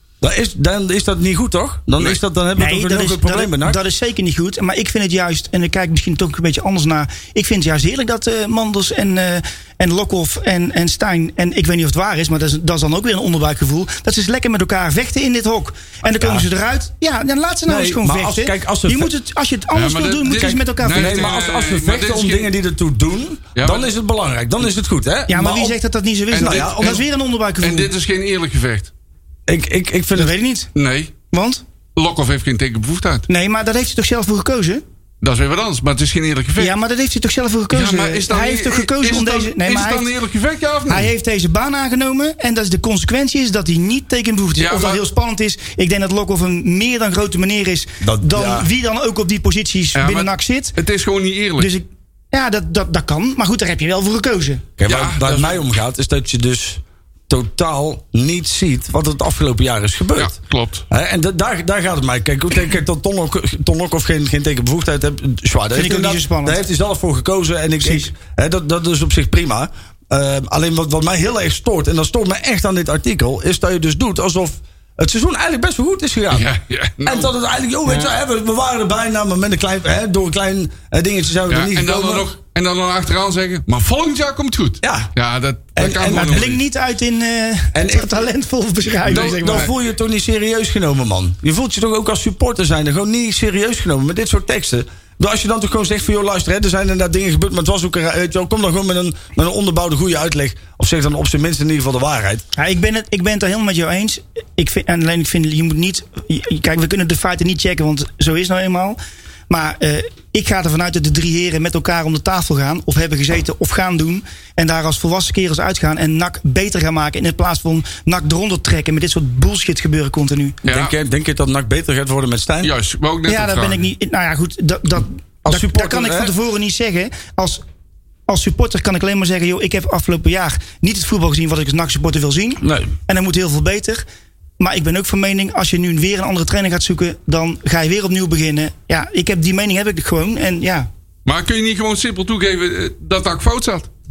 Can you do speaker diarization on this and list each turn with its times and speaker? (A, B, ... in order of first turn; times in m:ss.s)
0:00.2-0:03.8 A
0:02.6-0:21.3 B
0:16.2-0:16.5 A
0:17.7-0:19.1 A
0:19.7-0:22.5 C
0:20.9-0:25.8 A
0:23.6-0:23.9 C
0:25.3-0:27.9 B
0:26.3-0:27.0 A
0:26.3-0:27.0 C
0:27.6-0:28.9 C
0:29.5-0:30.3 A
0:30.2-0:30.7 B
0:30.8-0:31.1 C
0:31.3-0:31.6 B
0:32.0-0:33.3 C
0:33.3-0:34.8 B
0:35.2-0:36.8 C
0:36.6-0:40.1 B
0:37.7-0:41.1 C
0:40.9-0:50.8 B
0:44.6-0:45.0 C
0:48.0-0:48.7 A
0:50.0-0:51.7 C
0:51.6-0:54.6 B
0:54.8-1:00.3 A
0:54.9-0:55.6 C
1:00.2-1:00.8 C
1:00.9-1:16.5 A
1:05.7-1:06.6 B
1:07.8-1:08.1 B
1:16.3-1:17.3 C
1:17.0-1:22.3 A
1:21.5-1:26.6 C
1:24.8-1:25.1 A
1:25.8-1:26.5 A
1:26.1-1:29.7 B
1:27.7-1:28.2 A
1:29.1-1:29.7 C
1:29.1-1:42.4 A
1:42.6-1:49.0 B
1:49.5-2:00.6 B
2:00.6-2:00.9 C
2:00.7-2:02.7 A
2:02.6-2:03.8 C
2:03.3-2:07.6 B
2:05.4-2:06.3 A
2:08.3-2:14.0 B
2:12.6-2:12.9 A
2:14.6-2:20.9 B
2:21.2-2:23.9 C